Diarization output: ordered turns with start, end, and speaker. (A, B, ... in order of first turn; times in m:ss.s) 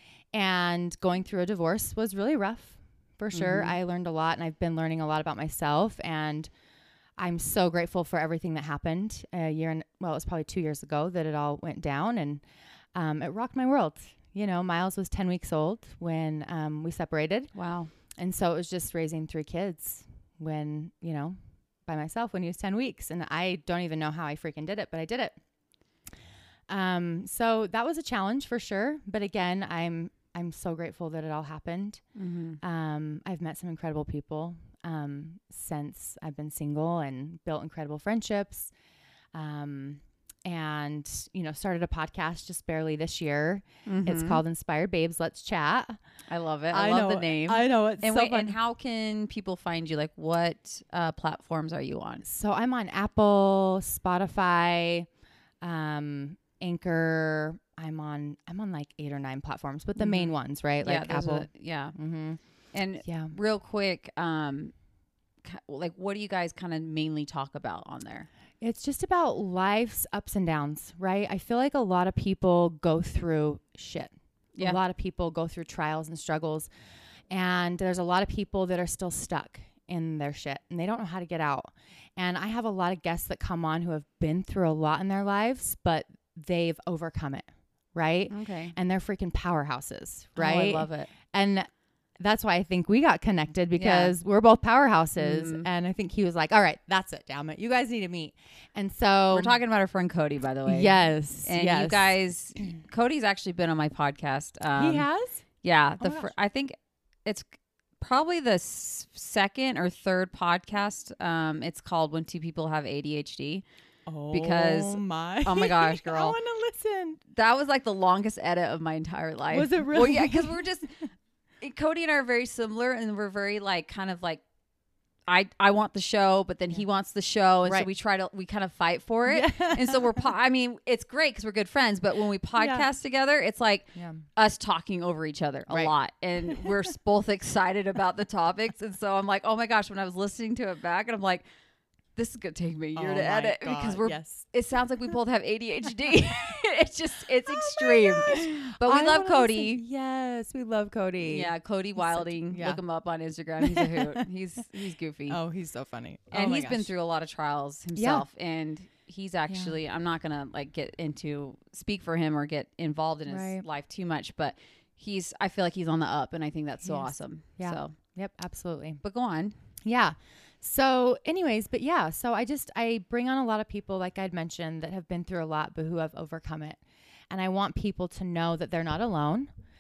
0:00.3-0:06.5 A
0:03.3-0:03.8 B
0:07.2-0:12.4 A
0:12.9-0:17.5 A
0:17.6-0:17.9 B
0:18.2-0:25.3 A
0:26.7-0:32.0 A
0:32.2-0:32.6 B
0:32.6-0:38.7 A
0:39.3-0:46.0 A
0:43.9-0:44.4 B
0:46.3-0:52.2 B
0:46.7-0:48.6 A
0:52.2-0:55.1 A
0:55.6-1:02.4 A
1:00.0-1:02.0 B
1:02.7-1:04.7 B
1:03.0-1:03.4 A
1:05.4-1:08.3 B
1:08.6-1:16.7 A
1:17.3-1:39.6 A
1:28.3-1:28.8 B
1:30.4-1:31.1 B
1:33.8-1:34.1 B
1:35.2-1:35.7 B
1:39.3-1:45.1 B
1:40.7-1:42.2 A
1:44.8-1:45.4 A
1:45.6-1:47.5 B
1:46.0-1:46.3 A
1:48.0-1:53.6 B
1:54.1-1:57.2 A
1:54.3-1:56.4 B
1:57.3-2:01.0 B
1:59.5-2:00.6 A
2:01.6-2:04.4 B
2:05.3-2:21.4 B
2:09.3-2:10.2 A
2:12.6-2:12.9 A
2:14.0-2:14.2 A
2:16.5-2:16.7 A
2:22.2-2:29.8 B
2:23.0-2:24.5 A
2:27.5-2:32.8 A
2:31.3-2:35.4 B
2:33.6-2:34.2 A
2:35.3-2:36.9 A
2:36.3-2:48.0 B
2:38.0-2:38.2 A
2:39.5-2:39.8 A
2:43.3-2:43.6 A
2:46.8-2:49.0 A
2:49.0-2:49.6 B
2:49.8-2:59.5 A